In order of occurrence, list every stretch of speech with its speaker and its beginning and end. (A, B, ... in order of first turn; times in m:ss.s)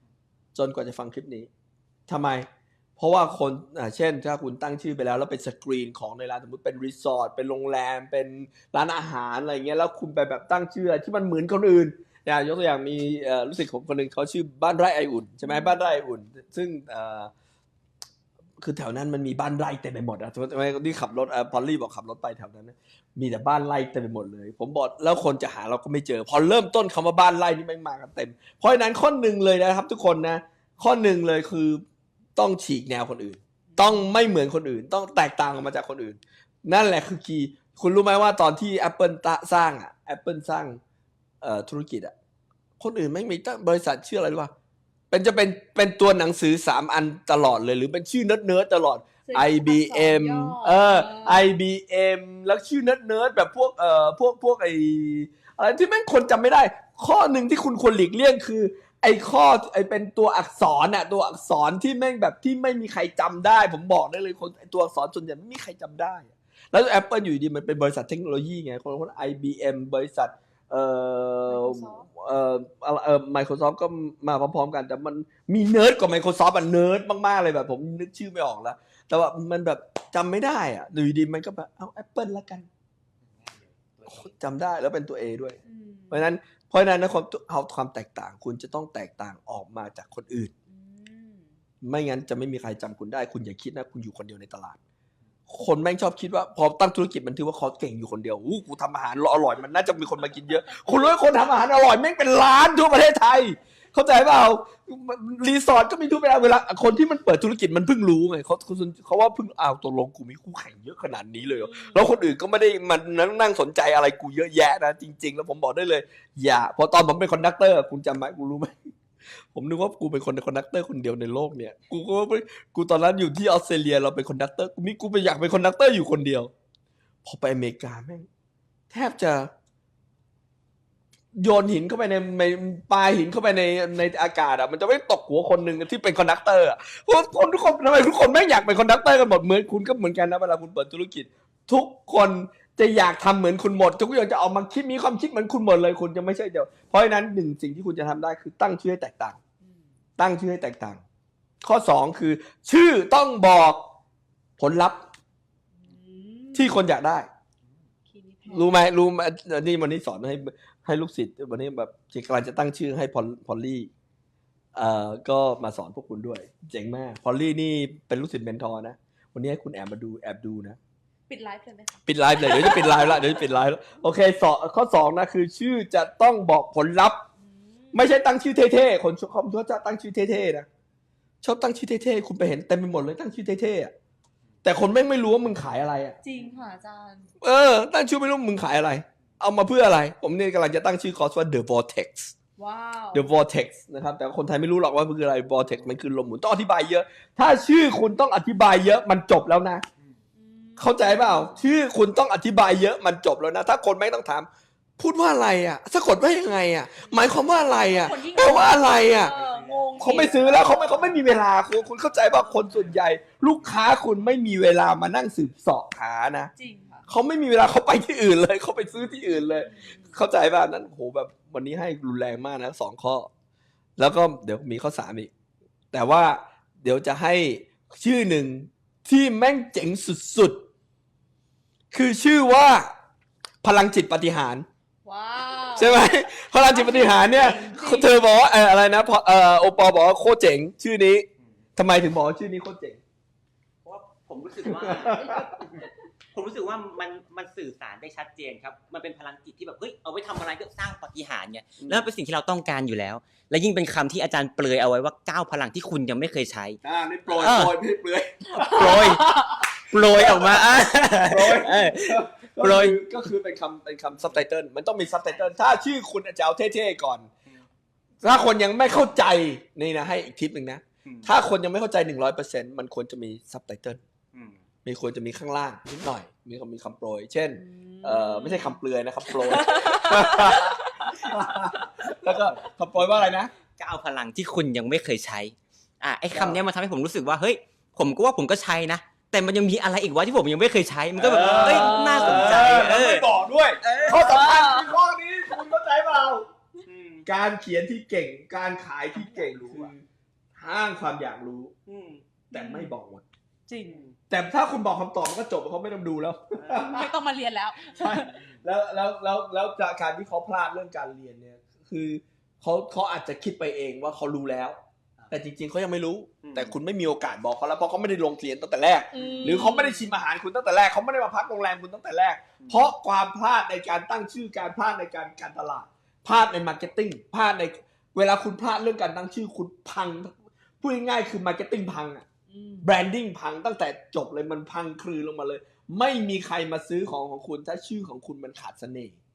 0:00.5-0:01.5 A
0:02.1-0:02.4 A
0:03.0-0:17.3 A
0:15.4-0:15.8 B
0:18.6-0:31.8 A
0:32.4-0:40.8 A
0:33.7-0:34.1 B
0:41.4-0:42.1 A
0:42.8-0:44.5 A
0:45.1-1:22.7 A
0:49.2-0:51.4 B
1:11.4-1:12.1 B
1:24.0-1:25.6 A
1:25.6-1:26.2 B
1:26.1-1:30.5 A
1:30.7-1:31.5 B
1:31.8-1:34.8 A
1:35.5-1:58.7 A
1:51.6-1:52.0 B
1:59.5-2:06.5 A
2:07.2-2:08.3 A
2:08.9-2:09.5 A
2:11.4-2:29.4 A
2:30.2-2:31.0 A
2:31.6-2:33.8 A
2:34.6-2:35.0 A
2:35.8-2:36.8 B
2:36.5-2:37.3 A
2:38.1-2:38.7 B
2:38.5-2:43.9 A
2:44.7-2:50.8 A
2:51.3-2:53.4 B
2:52.0-2:57.2 A
2:57.4-2:58.1 B
2:57.9-3:00.7 A
3:01.4-3:03.9 A
3:04.6-3:06.2 A
3:06.2-3:07.3 B
3:07.4-3:12.3 A
3:12.6-3:13.3 B
3:13.1-3:19.8 A
3:20.4-3:21.7 B
3:20.8-3:29.3 A
3:27.3-3:31.4 B
3:30.0-3:36.5 A
3:32.2-3:32.8 B
3:36.6-3:37.1 B
3:37.1-3:43.3 A
3:39.3-3:40.2 B
3:44.0-3:45.3 A
3:45.9-3:50.6 A
3:51.9-3:52.9 A
3:53.6-3:54.6 A
3:55.0-3:58.1 B
3:55.7-4:03.0 A
4:03.8-4:05.7 C
4:04.6-4:05.5 A
4:06.3-4:17.7 C
4:11.8-4:12.1 A
4:16.8-4:27.3 A
4:18.6-4:23.0 C
4:28.2-4:34.0 A
4:34.8-4:43.5 A
4:37.5-4:41.8 B
4:43.8-4:53.2 C
4:46.3-4:46.6 A
4:51.2-4:56.4 A
4:51.4-4:52.7 B
4:53.8-4:54.6 C
4:54.0-4:54.9 B
4:56.9-4:57.2 C
4:57.2-5:00.0 A
4:59.1-4:59.9 B
5:00.6-5:01.7 A
5:01.9-5:02.2 C
5:02.5-5:03.2 A
5:02.5-5:02.9 B
5:03.7-5:04.0 B
5:04.3-5:07.1 A
5:06.7-5:08.4 B
5:07.9-5:14.8 A
5:15.3-5:32.2 A
5:16.4-5:16.7 C
5:19.1-5:20.1 B
5:22.6-5:22.9 C
5:32.5-5:32.9 B
5:32.8-5:39.2 A